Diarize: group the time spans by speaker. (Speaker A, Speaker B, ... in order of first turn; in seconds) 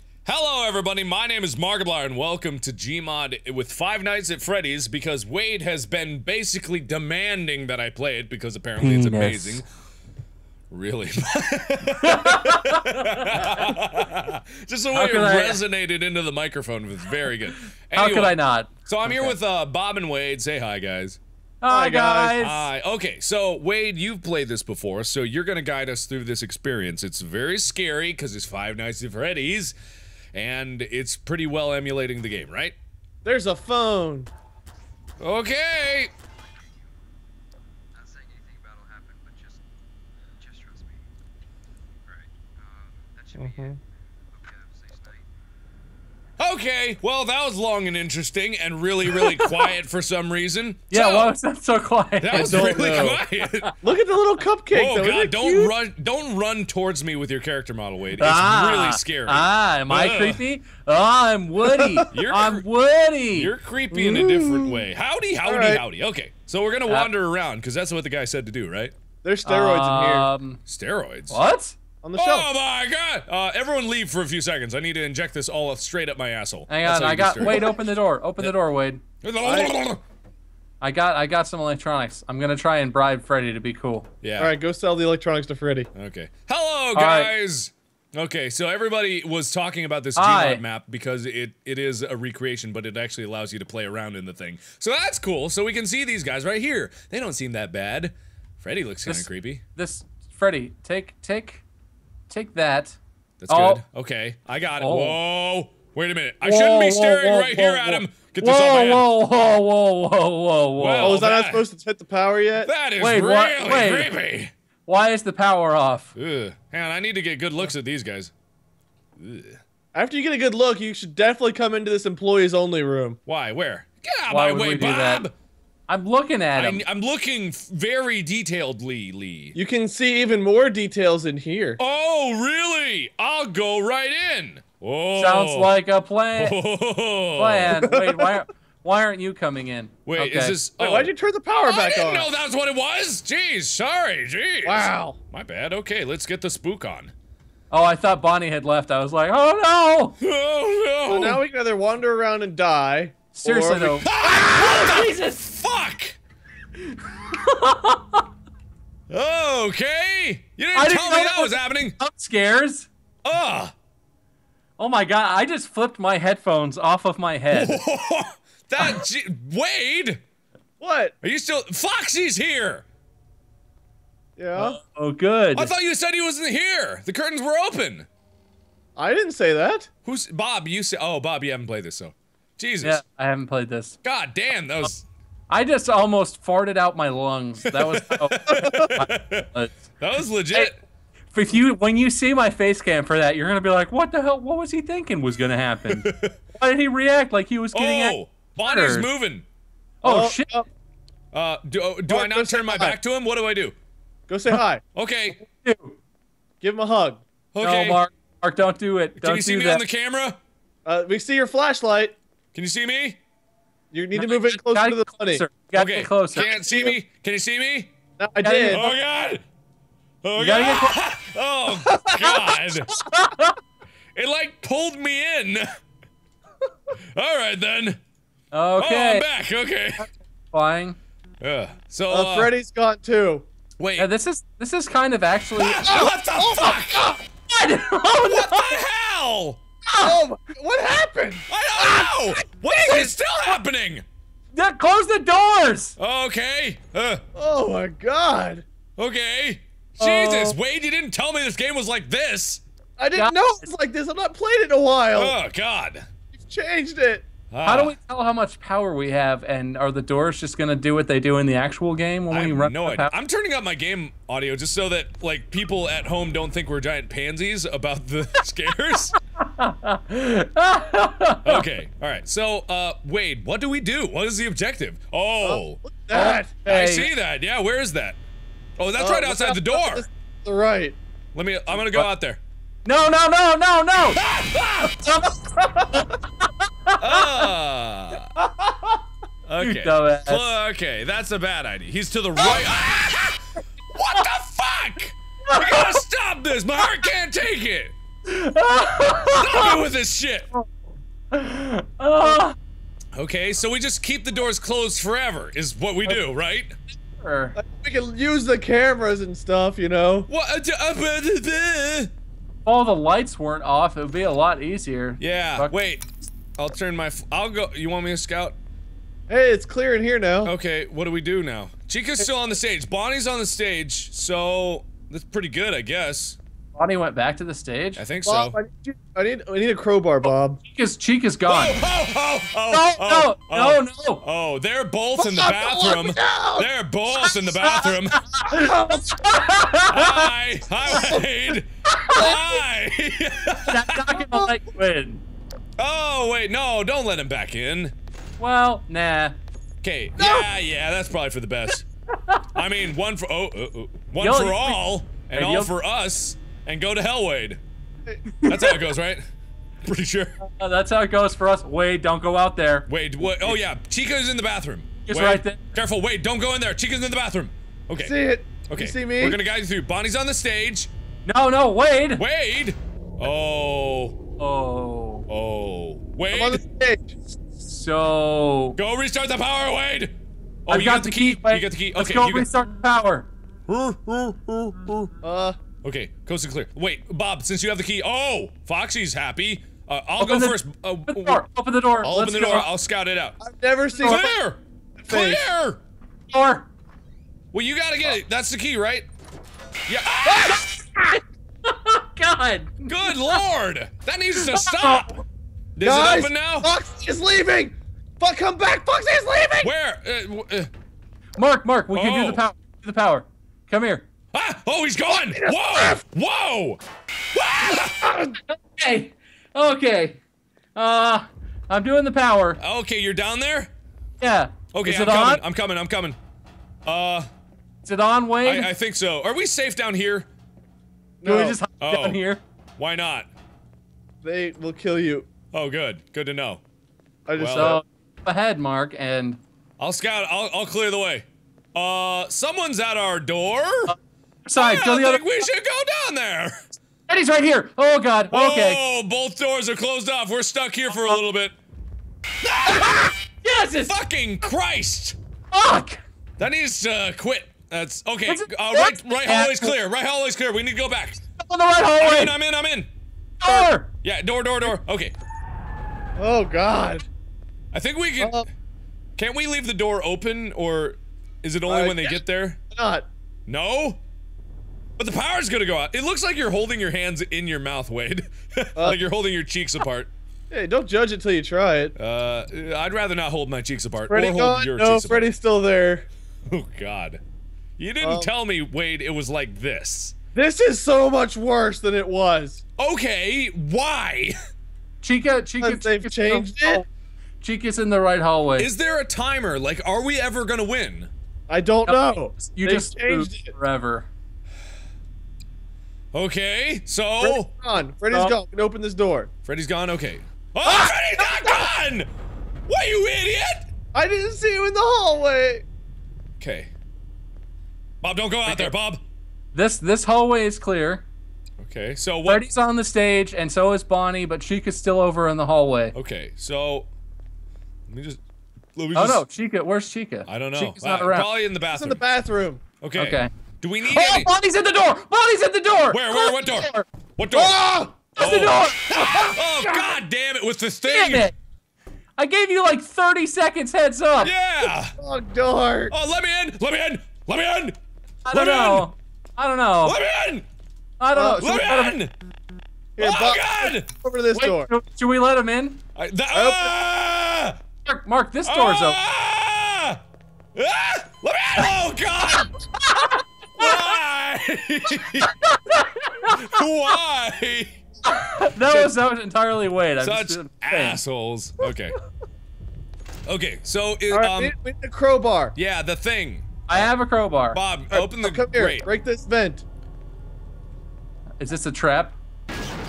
Speaker A: 0.2-9.7, 10.7-18.4, 18.9-21.2, 22.4-29.8, 30.3-32.8, 35.2-36.1, 46.4-51.4, 52.2-53.7, 54.7-60.4, 62.1-62.6, 63.3-68.9, 70.7-71.4, 72.2-77.8, 79.2-80.0, 84.2-84.5, 85.9-99.6, 103.4-109.1, 110.8-111.7, 112.6-114.5, 116.1-118.3, 119.2-119.6, 123.2-125.3, 126.5-129.6, 131.8-135.7, 136.3-137.8, 140.1-141.1, 141.6-147.1, 150.2-151.4, 154.0-156.2, 159.1-161.9, 163.2-163.7, 167.5-170.2, 171.2-172.8, 175.5-178.1, 180.0-183.0, 184.0-185.1, 187.7-189.5, 190.0-190.8, 195.9-196.3, 197.7-199.4, 201.3-203.7, 204.9-205.4, 207.5-208.0, 209.2-210.4, 212.5-213.2, 215.7-217.9, 218.7-219.4, 220.2-222.9, 224.2-225.6, 227.1-228.0, 228.8-230.1, 231.4-232.5, 233.8-234.1, 235.5-237.1, 238.1-239.6, 241.5-244.0, 246.0-247.2, 249.0-252.6, 255.1-256.1, 257.5-257.9, 262.3-269.2, 271.4-275.8, 276.6-278.2, 278.8-280.1, 281.3-282.4, 284.1-285.0, 287.0-288.3, 289.5-293.4, 293.9-297.9, 299.3-300.5, 303.1-306.8, 310.3-312.1, 315.2-316.1, 316.6-318.6, 320.4-326.4, 328.0-328.6, 331.4-338.2, 339.9-344.0, 345.8-347.9, 349.8-351.9, 352.5-357.6, 358.4-359.2, 359.8-360.4, 362.9-368.1, 368.6-370.9, 372.2-374.2, 375.3-376.6, 378.8-380.1, 380.7-382.5, 383.7-385.1, 385.8-391.4, 392.0-393.4, 394.0-395.8, 397.5-399.1, 399.9-400.7, 402.9-405.2, 405.8-406.7, 409.6-410.7, 411.9-412.4, 414.3-416.8, 417.3-418.2, 422.6-423.7, 424.7-426.2, 426.9-427.3, 428.4-430.3, 431.8-432.2, 432.8-433.3, 435.5-436.6, 437.4-437.8, 439.8-443.9, 444.6-446.6, 448.3-451.5, 452.4-453.1, 453.9-455.2, 456.4-461.2, 462.0-462.9, 464.0-465.1, 467.7-468.4, 469.2-472.6, 473.5-474.0, 475.0-480.1, 481.9-485.3, 486.5-487.2, 487.8-490.1, 492.8-494.3, 498.6-501.1, 506.1-507.5, 509.4-512.1, 512.7-513.7, 516.4-516.7, 518.0-519.0, 521.6-522.5, 525.9-526.9, 527.9-528.2, 528.8-529.2, 530.3-532.0, 532.8-534.3, 535.9-541.3, 544.2-544.9, 545.9-547.8, 548.3-548.9, 549.8-550.5, 551.4-552.1, 553.0-553.9, 556.0-557.6, 558.4-560.0, 560.5-562.5, 563.5-565.3, 566.2-567.8, 570.0-571.9, 573.2-574.5, 575.5-576.9, 577.5-578.8
Speaker B: 8.8-9.6, 12.0-13.7, 14.9-15.6, 17.9-19.3, 21.6-22.7, 49.1-49.7, 50.9-53.3, 55.4-55.7, 58.2-63.5, 69.4-70.6, 71.3-71.8, 76.7-79.0, 80.8-84.1, 86.9-87.3, 90.2-90.6, 99.0-101.6, 102.3-103.0, 103.5-103.8, 104.8-105.2, 106.4-111.2, 113.0-114.1, 114.8-116.1, 124.3-125.3, 125.9-126.8, 135.2-136.6, 137.3-140.6, 147.7-150.1, 153.3-155.5, 157.3-158.2, 160.7-162.9, 164.8-167.8, 174.6-175.7, 182.8-184.0, 185.5-189.8, 191.3-199.1, 200.0-200.5, 205.4-205.9, 207.6-209.8, 214.2-216.5, 218.4-218.9, 220.3-221.0, 222.9-223.5, 228.5-229.3, 230.5-231.0, 234.0-236.1, 236.6-238.8, 239.9-240.1, 244.5-245.9, 253.2-253.7, 257.6-263.1, 269.4-271.6, 276.1-277.1, 282.8-284.2, 285.0-287.5, 289.6-290.5, 295.5-296.0, 298.3-299.8, 301.3-302.6, 307.1-307.6, 312.6-315.8, 326.7-328.0, 330.6-331.8, 332.7-334.2, 337.6-340.3, 341.9-342.4, 343.7-345.2, 348.4-349.4, 354.2-355.7, 358.4-358.8, 360.4-362.9, 365.1-365.6, 371.2-372.2, 374.4-375.3, 377.6-378.8, 380.7-383.3, 390.2-392.7, 396.3-396.7, 400.3-403.4, 404.4-405.2, 411.4-414.1, 418.3-420.2, 420.7-422.6, 424.2-425.4, 427.8-428.7, 431.2-432.4, 437.6-439.4, 444.4-445.3, 447.1-448.8, 450.9-451.2, 452.6-454.0, 455.5-456.0, 458.2-459.7, 461.4-462.4, 463.4-463.9, 495.0-496.8, 497.4-498.7, 501.9-504.1, 518.5-518.7, 519.5-521.0, 522.2-525.9, 528.9-531.3, 533.0-533.3, 533.9-536.1, 538.1-538.9, 540.8-541.3, 542.2-544.3, 548.2-550.0, 551.0-552.0, 554.3-555.8, 557.8-559.0, 562.8-563.9, 565.4-566.6, 568.1-571.0, 576.7-577.6, 581.4-582.1
Speaker C: 21.7-22.4, 33.2-34.3, 43.4-43.8, 52.3-53.2, 53.8-55.5, 61.7-62.0, 63.9-64.8, 65.4-65.8, 69.2-70.3, 72.0-72.5, 77.4-77.7, 79.4-79.7, 84.4-85.9, 111.0-112.7, 119.9-123.2, 129.5-131.8, 137.8-138.3, 140.8-142.3, 144.6-145.2, 151.1-154.0, 170.8-171.1, 174.4-174.8, 178.9-179.9, 188.5-188.9, 200.0-200.7, 202.1-203.0, 204.3-204.8, 206.6-207.2, 210.8-212.2, 213.9-215.4, 216.3-217.0, 218.2-218.8, 232.1-233.4, 235.8-236.7, 239.9-242.1, 247.3-248.7, 250.0-250.6, 253.0-255.4, 256.4-257.2, 275.4-276.6, 279.0-281.0, 288.4-289.0, 307.6-310.3, 319.3-320.5, 328.2-330.6, 335.2-336.7, 338.4-339.3, 340.9-341.2, 342.1-342.4, 344.1-344.5, 350.2-350.5, 368.0-369.4, 376.3-377.2, 385.2-385.6, 393.4-394.4, 395.0-395.4, 405.8-409.7, 415.2-416.0, 431.2-431.6, 434.2-435.3, 437.3-437.8, 463.4-463.7, 466.2-467.0, 468.2-468.4, 471.7-473.1, 480.5-481.9, 484.1-486.1, 488.0-488.3, 490.3-492.6, 495.6-496.8, 501.5-503.5, 507.2-509.3, 510.6-511.7, 513.9-515.6, 531.7-532.6, 536.1-538.1, 538.9-539.9, 544.9-545.9, 551.1-551.5, 553.0-554.7, 556.3-556.7, 574.1-575.5, 577.9-579.6
Speaker D: 38.0-39.6, 40.4-41.0, 42.5-43.7, 44.4-45.2